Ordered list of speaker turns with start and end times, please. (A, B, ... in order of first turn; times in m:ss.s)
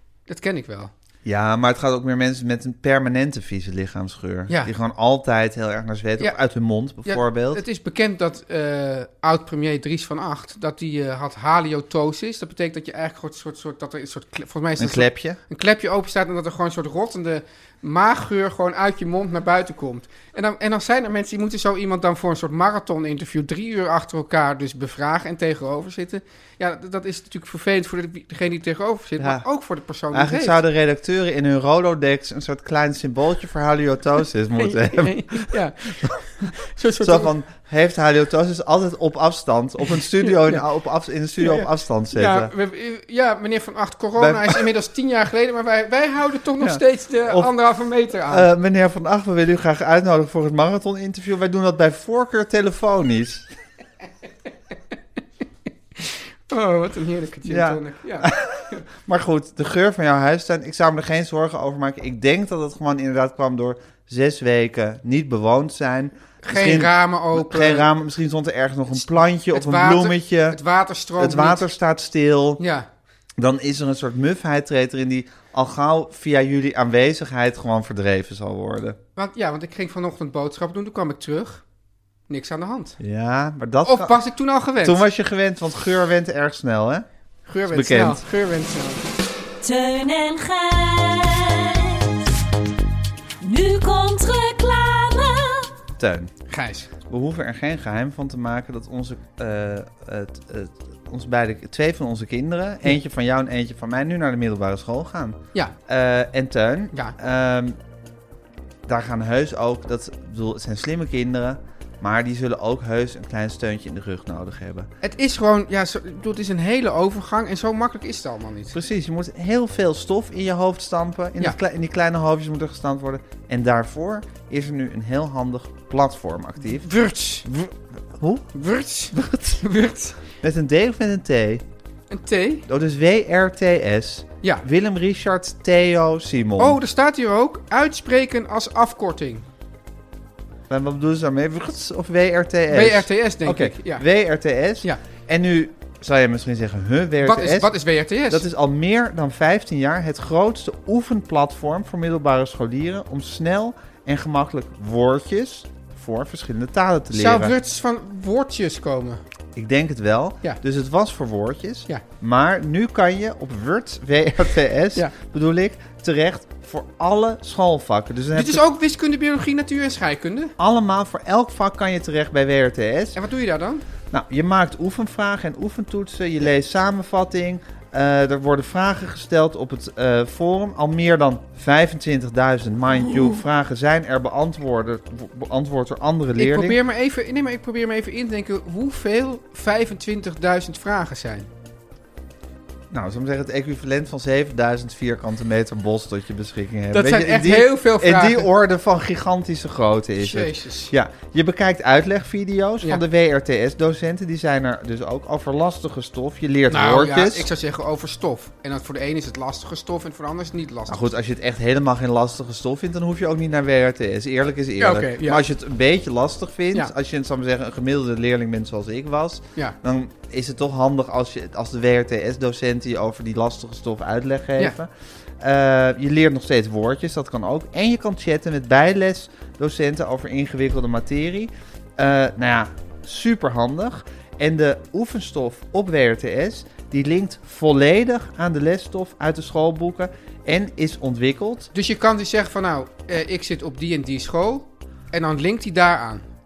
0:00.3-0:00.9 A
0:01.2-0:07.6 B
0:07.0-0:30.6 A
0:14.8-0:15.4 B
0:29.2-0:29.4 B
0:30.1-0:36.1 B
0:34.6-0:37.3 A
0:37.0-0:42.5 B
0:40.2-0:40.6 A
0:41.4-0:48.5 A
0:44.2-0:44.7 B
0:46.6-0:47.5 B
0:48.3-0:53.5 B
0:56.0-0:58.8 A
0:57.5-1:10.6 B
1:06.4-1:07.9 A
1:08.9-1:11.6 A
1:11.2-1:12.6 B
1:12.6-1:12.9 A
1:13.4-1:19.0 B
1:19.2-1:21.6 A
1:22.3-1:23.0 A
1:23.0-1:24.2 B
1:23.8-1:25.0 A
1:24.8-1:27.0 B
1:27.4-1:29.0 A
1:27.7-1:28.2 B
1:29.6-1:32.3 C
1:33.4-1:35.7 C
1:36.0-1:36.3 B
1:36.5-1:36.9 A
1:37.1-1:47.8 B
1:48.8-1:54.9 B
1:55.0-1:58.7 A
1:58.7-2:06.9 B
2:06.7-2:07.4 A
2:07.4-2:08.5 B
2:08.5-2:10.2 A
2:09.1-2:09.6 B
2:10.4-2:11.6 B
2:12.1-2:12.6 A
2:12.7-2:16.8 B
2:16.6-2:19.4 A
2:20.7-2:27.7 B
2:22.7-2:24.0 A
2:27.2-2:28.4 A
2:28.3-2:37.5 B
2:37.1-2:39.2 A
2:39.5-2:48.6 B
2:48.3-2:50.5 A
2:50.6-2:53.2 B
2:53.1-2:53.8 A
2:54.1-3:06.8 B
3:06.4-3:11.5 A
3:12.9-3:27.5 B
3:16.9-3:18.5 A
3:20.2-3:20.9 A
3:26.7-3:31.1 A
3:30.9-4:01.7 B
3:34.8-3:35.4 A
4:01.7-4:06.2 A